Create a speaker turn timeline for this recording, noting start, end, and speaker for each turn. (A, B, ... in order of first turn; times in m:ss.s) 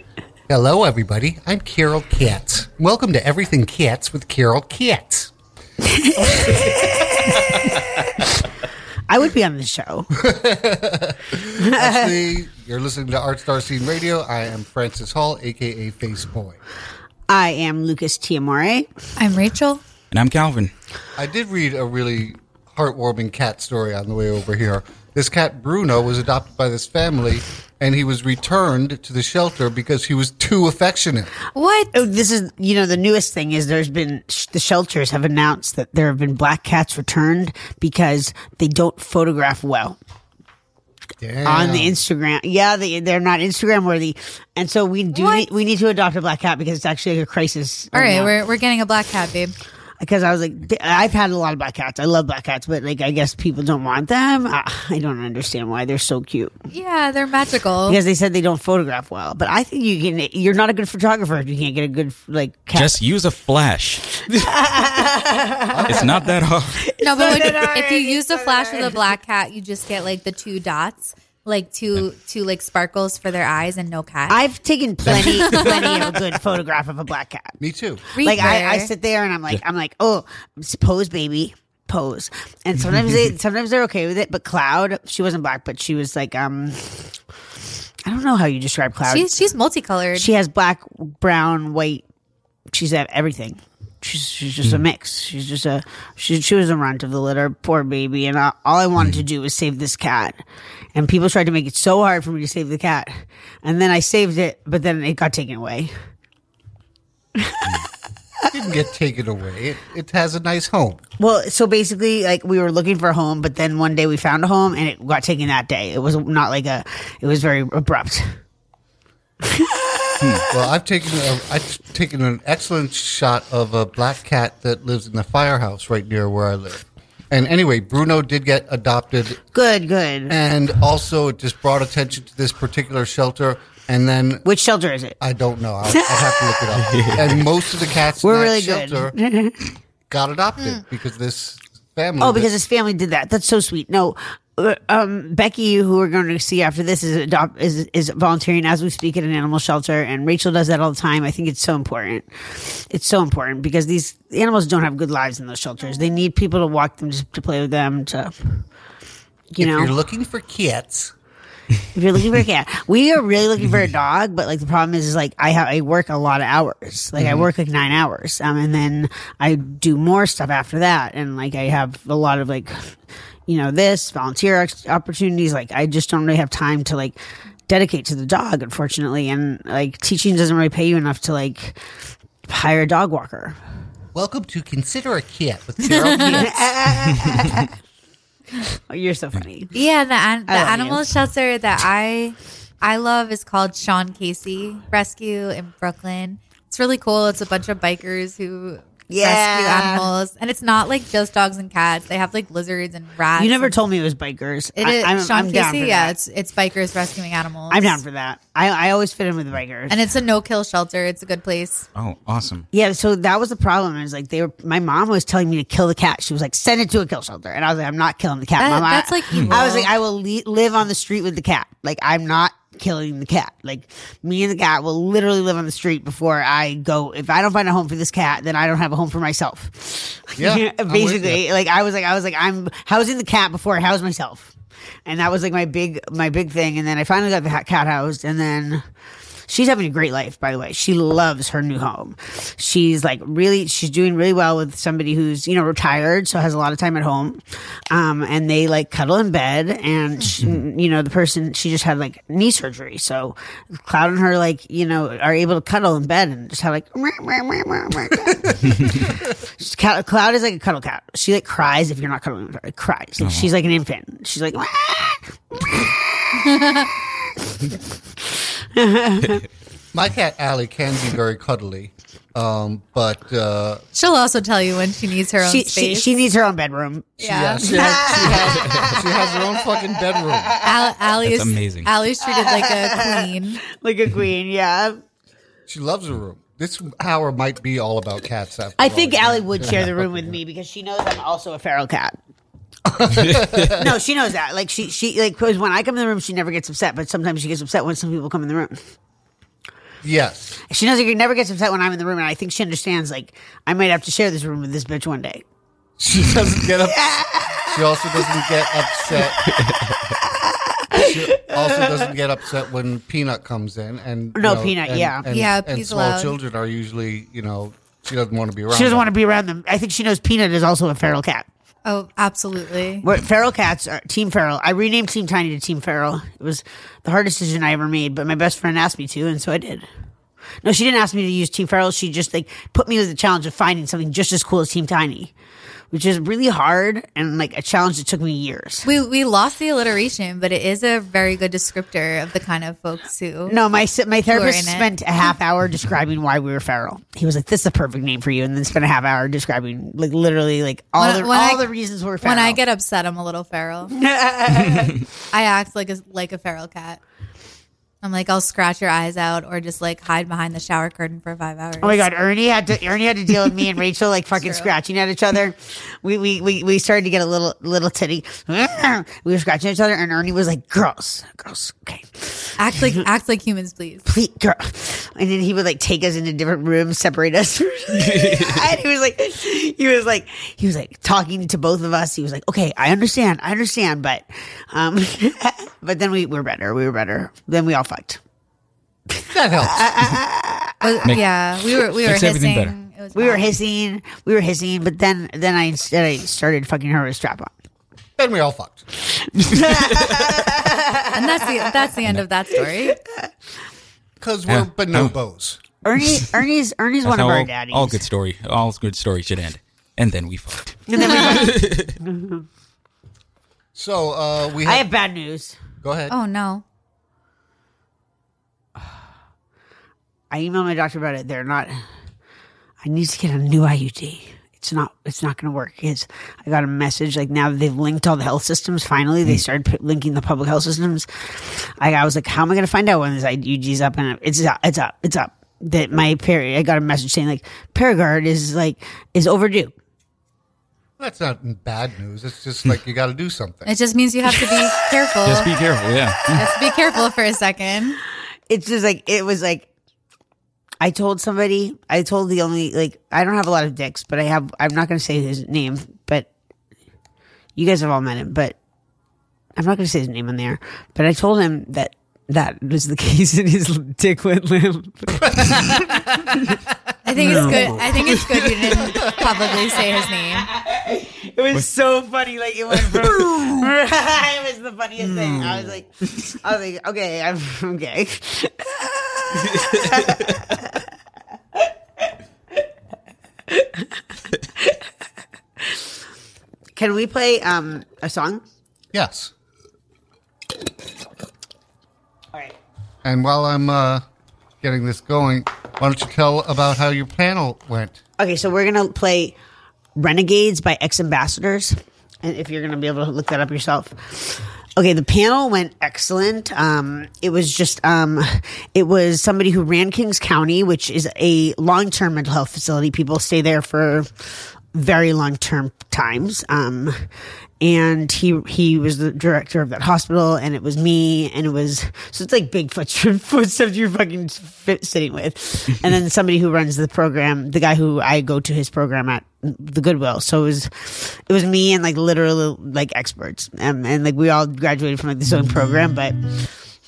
0:00.5-0:05.3 A
0:05.8-0:08.4 B
0:06.3-0:06.7 A
0:09.1-0:10.1 B
0:10.2-0:16.6 A
0:11.6-0:12.2 B
0:17.3-0:18.9 B
0:19.2-0:19.8 C
0:20.1-0:20.7 D
0:21.2-0:31.3 A
0:31.5-0:31.9 C
0:31.9-0:40.0 B
0:41.2-0:42.0 A
0:41.4-0:48.3 B
0:45.1-0:45.4 C
0:47.9-0:49.5 C
0:50.0-0:56.5 B
0:56.7-0:58.0 C
0:57.8-1:03.0 B
1:02.7-1:04.2 D
1:04.3-1:06.1 B
1:05.7-1:06.3 A
1:05.9-1:06.8 D
1:06.8-1:09.1 B
1:07.0-1:14.4 C
1:14.3-1:17.6 B
1:15.1-1:16.1 C
1:17.6-1:18.0 A
1:18.1-1:18.9 C
1:18.2-1:27.2 B
1:28.0-1:29.3 B
1:29.1-1:30.3 C
1:30.1-1:32.0 B
1:32.7-1:40.4 B
1:40.9-1:45.9 B
1:47.4-1:47.7 B
1:48.5-1:51.0 A
1:51.2-1:58.4 B
1:59.4-2:00.5 B
2:00.5-2:09.4 A
2:09.5-2:10.3 B
2:10.3-2:14.4 A
2:14.4-2:15.2 B
2:15.2-2:19.1 A
2:15.9-2:16.8 B
2:16.8-2:17.3 D
2:18.2-2:19.7 B
2:20.1-2:22.5 A
2:22.2-2:38.6 B
2:39.5-2:39.9 B
2:39.6-2:41.1 A
2:41.9-2:57.2 B
2:57.7-3:01.8 B
3:02.5-3:03.6 B
3:04.1-3:06.7 A
3:06.0-3:06.4 C
3:06.2-3:07.7 B
3:08.7-3:09.7 B
3:09.7-3:23.8 C
3:10.5-3:11.0 B
3:19.1-3:20.1 B
3:23.4-3:26.1 B
3:24.8-3:28.0 C
3:27.7-3:30.0 B
3:29.9-3:31.8 C
3:31.9-3:32.7 D
3:32.7-3:54.5 B
3:38.6-3:39.9 C
3:50.4-3:51.4 A
3:55.0-3:58.8 B
3:59.5-4:29.5 B
4:23.2-4:23.5 D
4:29.9-4:33.8 A
4:33.9-4:36.1 C
4:35.4-4:39.4 B
4:37.2-4:40.5 A
4:37.2-4:37.7 C
4:37.9-4:38.8 D
4:40.4-4:40.9 B
4:40.6-4:43.6 C
4:41.2-4:41.9 D
4:42.2-4:45.0 B
4:45.7-4:50.3 A
4:48.8-4:52.2 B
4:52.8-4:54.0 A
4:53.7-4:58.8 B
5:00.0-5:00.6 A
5:00.7-5:05.4 B
5:06.0-5:09.5 A
5:06.8-5:08.4 B
5:09.1-5:09.3 B
5:09.6-5:10.0 D
5:10.2-5:12.1 B
5:10.9-5:19.1 A
5:14.3-5:15.2 B
5:15.3-5:16.4 C
5:18.7-5:21.5 B
5:21.8-5:23.0 C
5:23.0-5:29.8 B
5:30.6-5:35.3 B
5:35.9-5:38.8 B
5:38.8-5:43.5 C
5:43.5-5:52.6 B
5:44.3-5:44.9 C
5:51.0-5:51.6 C
5:52.2-5:53.9 C
5:54.0-5:55.1 B
5:55.3-5:57.0 C
5:58.0-6:02.1 C
6:01.8-6:12.9 B
6:04.4-6:04.7 C
6:12.6-6:14.0 C
6:14.0-6:28.2 B
6:17.9-6:18.6 D
6:29.2-6:31.1 B
6:29.3-6:30.1 A
6:30.8-6:33.5 C
6:32.0-6:32.7 D
6:33.1-6:37.5 B
6:38.2-6:38.9 A
6:39.0-6:41.8 B
6:39.7-6:40.0 D
6:41.1-6:43.0 C
6:42.9-6:43.3 B
6:44.2-6:45.6 A
6:44.5-6:45.1 D
6:45.8-6:48.0 B
6:47.0-6:51.9 D
6:50.9-6:52.4 B
6:53.7-6:54.8 A
6:54.6-6:55.6 B
6:55.8-6:56.1 A
6:56.1-6:56.6 C
7:00.3-7:01.8 B
7:02.8-7:19.7 B
7:21.0-7:23.7 A
7:23.6-7:25.5 C
7:24.4-7:24.7 B
7:25.2-7:26.5 D
7:26.3-7:26.7 B
7:26.4-7:28.0 C
7:28.5-7:29.7 B
7:30.8-7:36.3 B
7:37.6-7:38.6 B
7:39.6-7:46.4 B
7:45.3-7:45.6 A
7:47.0-7:50.5 C
7:47.2-8:00.8 B
7:47.2-7:47.9 A
8:03.5-8:03.9 B
8:05.6-8:05.9 B
8:06.8-8:08.4 B
8:08.9-8:09.3 A
8:13.0-8:14.0 A
8:14.6-8:18.0 A
8:18.2-8:19.3 B
8:20.0-8:37.1 B
8:37.6-8:56.4 B